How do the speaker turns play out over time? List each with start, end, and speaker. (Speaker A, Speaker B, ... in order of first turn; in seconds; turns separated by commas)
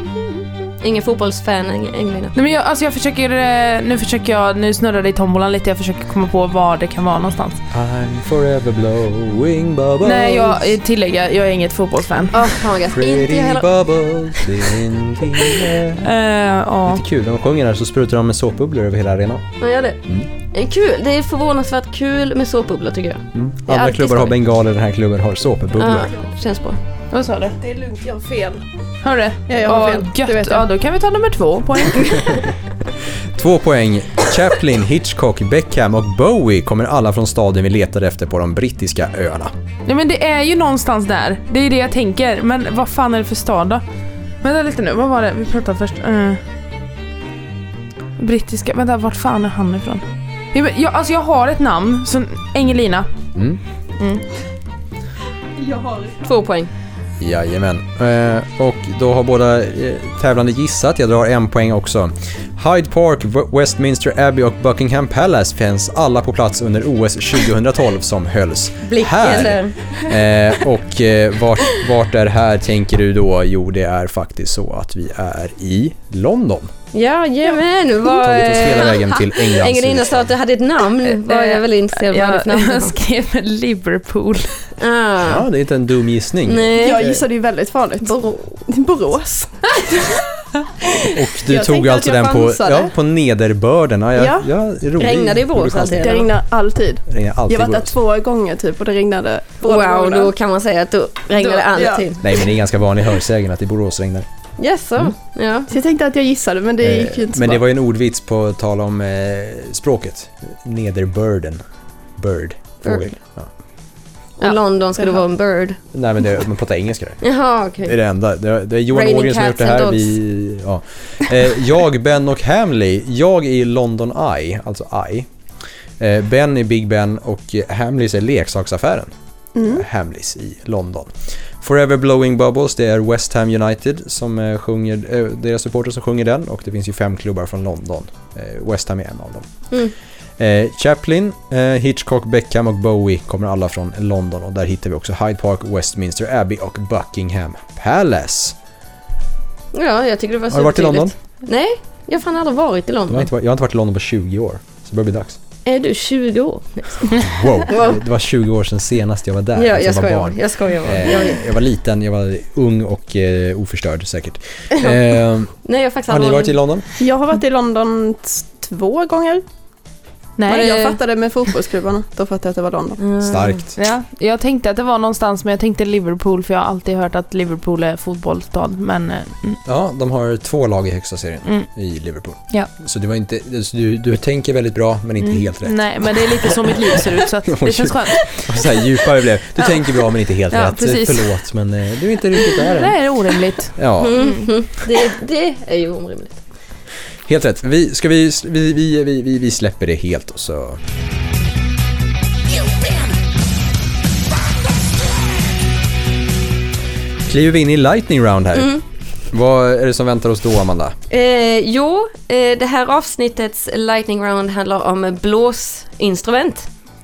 Speaker A: 0.8-2.3, Speaker B: 2.3-7.6, Speaker C: 7.7-10.7, Speaker B: 10.0-12.3, Speaker A: 12.3-13.7, Speaker C: 12.8-16.1, Speaker B: 16.0-17.0, Speaker C: 16.9-19.4, Speaker A: 19.6-20.0, Speaker A: 20.5-24.4, Speaker C: 23.3-26.1, Speaker A: 25.8-26.8, Speaker B: 27.1-27.6, Speaker D: 27.6-28.6, Speaker B: 29.0-32.5, Speaker D: 29.5-30.7, Speaker C: 33.3-39.5, Speaker B: 39.9-43.8, Speaker B: 44.4-46.4, Speaker B: 48.2-53.1, Speaker C: 53.4-53.6, Speaker D: 55.6-56.2, Speaker A: 56.2-56.7, Speaker C: 57.2-76.7, Speaker A: 68.8-69.7, Speaker A: 76.9-82.9, Speaker C: 78.2-80.3, Speaker B: 81.0-84.7, Speaker A: 84.8-85.4, Speaker C: 85.2-87.2, Speaker A: 86.5-87.1, Speaker D: 86.8-89.6, Speaker D: 90.8-92.9, Speaker C: 91.1-96.2, Speaker D: 94.2-94.5, Speaker A: 95.0-96.3, Speaker D: 96.0-100.3, Speaker C: 97.1-97.9, Speaker A: 99.6-102.2, Speaker D: 101.4-102.1, Speaker C: 102.2-104.2, Speaker A: 104.6-105.7, Speaker D: 105.7-107.6, Speaker C: 106.8-111.6, Speaker C: 112.2-113.5, Speaker A: 112.8-113.1, Speaker A: 114.4-115.8, Speaker C: 115.9-117.2, Speaker A: 117.2-117.9, Speaker C: 117.8-125.3, Speaker A: 118.9-120.2, Speaker C: 126.0-139.5, Speaker D: 129.6-129.8, Speaker C: 140.4-148.6, Speaker A: 149.7-153.3, Speaker C: 150.5-151.1, Speaker C: 153.1-155.4, Speaker A: 155.6-158.0, Speaker C: 157.2-165.5, Speaker A: 159.5-161.4, Speaker A: 165.6-166.6, Speaker C: 166.1-166.9, Speaker D: 167.0-169.4, Speaker B: 170.4-171.0, Speaker D: 170.5-173.0, Speaker A: 173.0-173.6, Speaker C: 173.2-173.7, Speaker B: 173.8-179.6, Speaker C: 179.7-185.8, Speaker B: 185.3-188.4, Speaker C: 186.4-186.7, Speaker C: 187.4-193.0, Speaker B: 190.5-191.3, Speaker B: 192.6-194.4, Speaker C: 193.8-194.2, Speaker A: 194.0-196.4, Speaker C: 197.3-200.8, Speaker C: 207.2-208.8, Speaker A: 208.5-208.8, Speaker C: 209.3-210.9, Speaker A: 211.1-216.7